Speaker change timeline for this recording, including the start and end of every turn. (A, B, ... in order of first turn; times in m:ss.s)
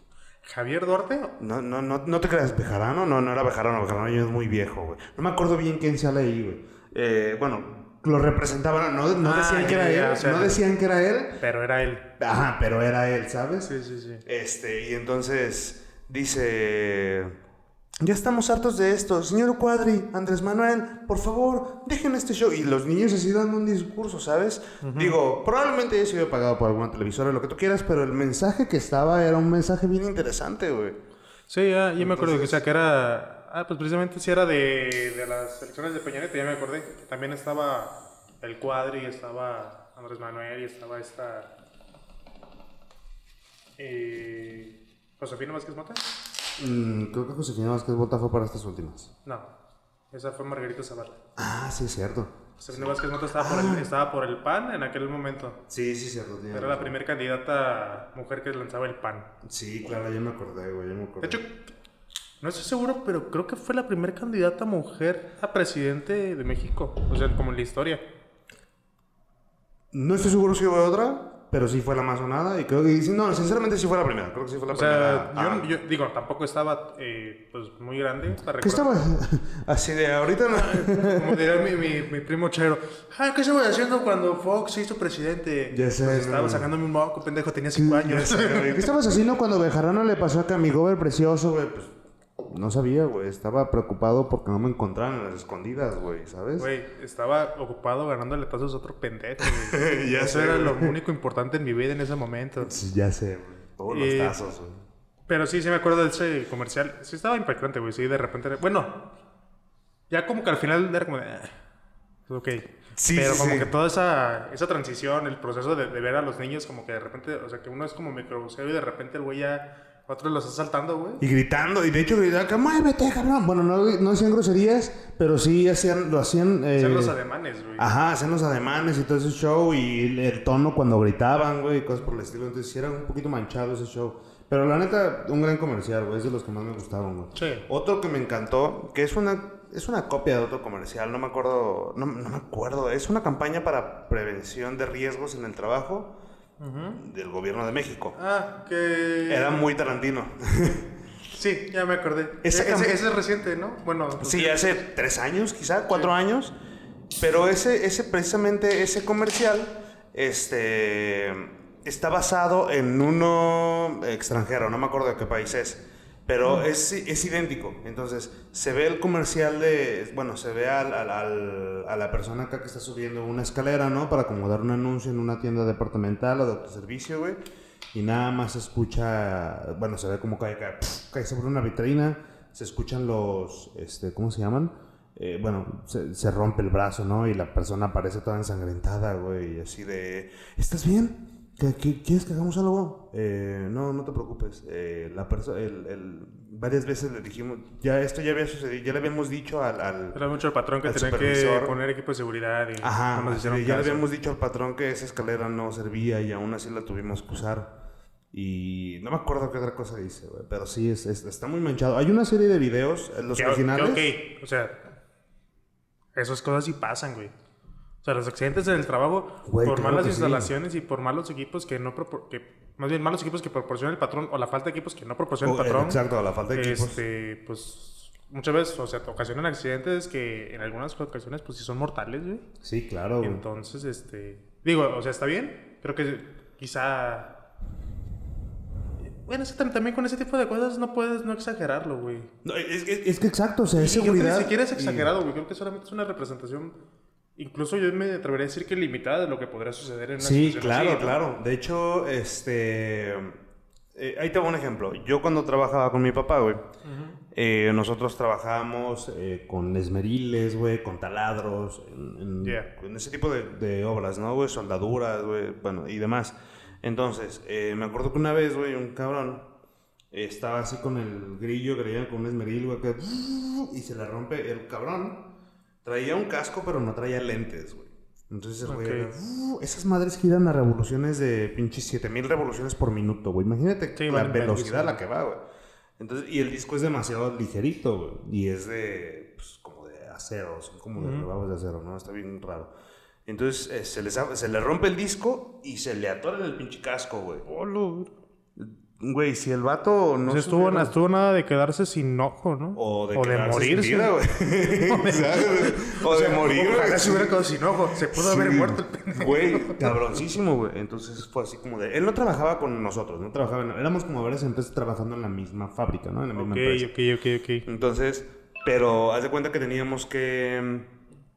0:00.4-0:01.3 A
0:01.4-0:11.4 B
0:09.2-0:10.6 A
0:11.4-0:12.1 A
0:12.2-0:13.7 B
0:13.6-0:14.2 A
0:14.2-0:17.4 B
0:18.0-0:31.0 B
0:24.8-0:25.2 A
0:31.5-0:41.5 A
0:32.0-0:32.6 B
0:43.8-0:46.1 A
0:46.6-0:49.1 B
0:50.1-0:51.2 A
0:51.4-0:53.9 B
0:52.6-0:55.6 A
0:55.7-0:57.0 B
0:56.5-0:59.3 A
0:59.4-1:01.4 B
1:01.2-1:01.7 A
1:02.4-1:08.0 A
1:09.9-1:15.7 B
1:14.7-1:18.9 A
1:18.6-1:21.5 B
1:20.5-1:28.9 A
1:25.7-1:26.7 B
1:27.8-1:36.7 B
1:36.6-1:42.7 A
1:39.4-1:41.0 B
1:42.6-1:44.8 B
1:43.9-1:44.4 A
1:45.3-1:49.0 A
1:50.1-1:51.5 A
1:52.3-2:01.2 A
1:53.0-1:53.7 B
2:01.2-2:07.2 B
2:06.7-2:07.9 A
2:07.8-2:26.2 B
2:17.3-2:17.6 A
2:26.6-2:27.0 A
2:27.0-2:28.2 B
2:28.2-2:29.6 A
2:29.3-2:30.9 B
2:31.3-2:34.8 A
2:32.4-2:33.0 B
2:34.2-2:36.6 B
2:37.2-2:57.4 B
2:57.9-3:20.2 B
3:20.1-3:24.0 A
3:20.8-3:21.7 B
3:22.8-3:27.8 B
3:28.3-3:34.1 B
3:33.4-3:34.8 A
3:36.2-3:37.3 A
3:38.0-3:46.0 A
3:39.4-3:40.5 B
3:45.4-3:47.0 B
3:46.5-3:52.4 A
3:52.6-3:53.4 B
3:53.2-3:57.4 A
3:59.1-4:02.3 A
4:02.4-4:05.1 B
4:03.8-4:06.7 A
4:07.4-4:11.2 A
4:10.2-4:13.4 B
4:13.9-4:16.7 B
4:16.8-4:17.2 A
4:17.3-4:29.5 B
4:22.4-4:22.7 A
4:30.1-4:35.3 B
4:35.8-4:45.4 B
4:38.6-4:39.2 A
4:44.0-4:45.0 A
4:46.0-4:52.7 B
4:51.0-4:51.3 A
4:53.3-5:00.9 B
4:57.5-4:58.0 A
5:00.2-5:04.1 A
5:02.8-5:07.5 B
5:04.8-5:10.0 A
5:08.0-5:16.9 B
5:16.4-5:17.7 A
5:17.7-5:20.9 B